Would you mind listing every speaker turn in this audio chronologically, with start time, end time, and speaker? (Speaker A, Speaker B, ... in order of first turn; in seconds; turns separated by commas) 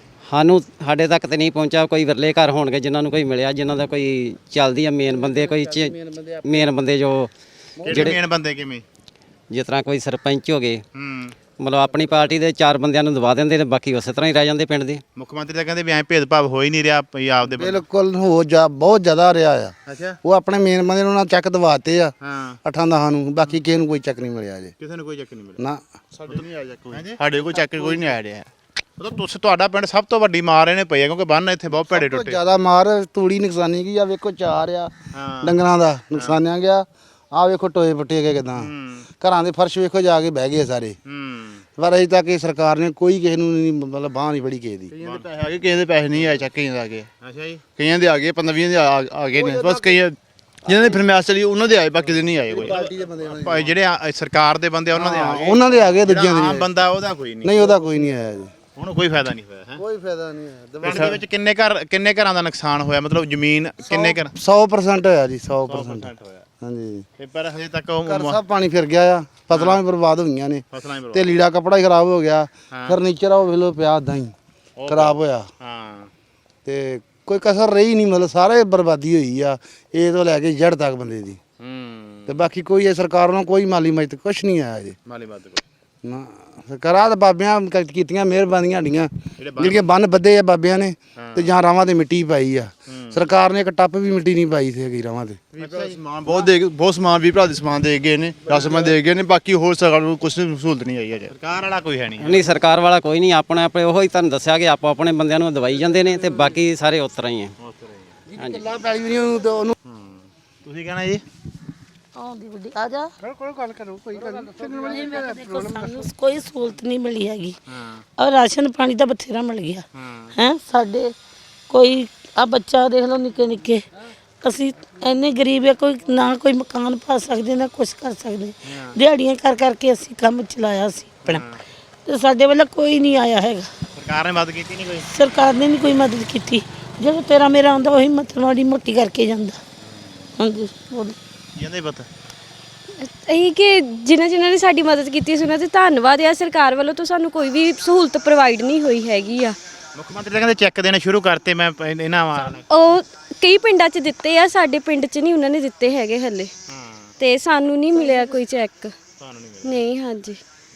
Speaker A: 0.3-7.3, Speaker B: 5.1-6.6, Speaker B: 7.8-8.2, Speaker C: 7.8-8.8, Speaker A: 9.5-10.8, Speaker C: 10.9-11.4, Speaker A: 11.6-15.0, Speaker C: 15.2-17.8, Speaker B: 17.6-22.1, Speaker C: 19.9-20.2, Speaker C: 22.2-22.6, Speaker B: 22.7-24.7, Speaker C: 24.8-25.6, Speaker D: 26.1-28.5, Speaker C: 26.3-27.2, Speaker C: 29.0-32.4, Speaker B: 31.8-34.9, Speaker C: 35.1-35.6, Speaker B: 35.4-38.7, Speaker C: 38.6-39.1, Speaker B: 39.2-41.0, Speaker C: 41.1-41.6, Speaker B: 41.8-44.9, Speaker D: 44.9-47.1, Speaker C: 45.0-45.3, Speaker C: 47.2-47.6, Speaker D: 47.7-52.7, Speaker B: 49.3-50.0, Speaker B: 50.7-51.0, Speaker B: 52.5-53.7, Speaker C: 52.5-57.8, Speaker B: 55.0-56.7, Speaker B: 57.4-58.5, Speaker C: 58.8-59.8, Speaker B: 59.8-61.2, Speaker C: 60.8-64.3, Speaker B: 63.9-66.1, Speaker C: 65.7-66.4, Speaker B: 66.6-67.0, Speaker C: 67.2-68.4, Speaker B: 68.1-74.3, Speaker C: 69.5-69.8, Speaker C: 70.7-71.4, Speaker C: 74.8-76.1, Speaker B: 74.9-75.5, Speaker B: 76.7-81.4, Speaker C: 81.6-82.4, Speaker B: 82.3-85.0, Speaker C: 85.1-85.6, Speaker B: 86.0-95.4, Speaker C: 89.4-89.9, Speaker C: 91.2-91.5, Speaker C: 92.9-93.2, Speaker C: 95.6-96.5, Speaker D: 95.6-101.3, Speaker C: 98.5-98.9, Speaker C: 101.3-102.5, Speaker A: 102.2-107.5, Speaker C: 107.6-108.1, Speaker B: 108.3-109.8, Speaker C: 109.9-111.2, Speaker E: 112.2-113.1, Speaker B: 113.6-116.1, Speaker E: 114.6-117.6, Speaker C: 117.7-118.0, Speaker E: 118.2-119.8, Speaker C: 120.0-120.4, Speaker E: 120.3-121.1, Speaker E: 121.7-123.9, Speaker E: 124.4-131.4, Speaker C: 128.7-129.0, Speaker C: 131.2-131.6, Speaker E: 132.1-133.7, Speaker C: 133.9-135.1, Speaker E: 135.1-139.6, Speaker E: 140.4-141.2, Speaker C: 141.6-142.1, Speaker F: 143.0-149.5, Speaker C: 149.9-152.7, Speaker F: 152.7-156.5, Speaker C: 156.7-157.1, Speaker F: 157.2-158.9, Speaker C: 159.2-159.8, Speaker F: 159.6-160.4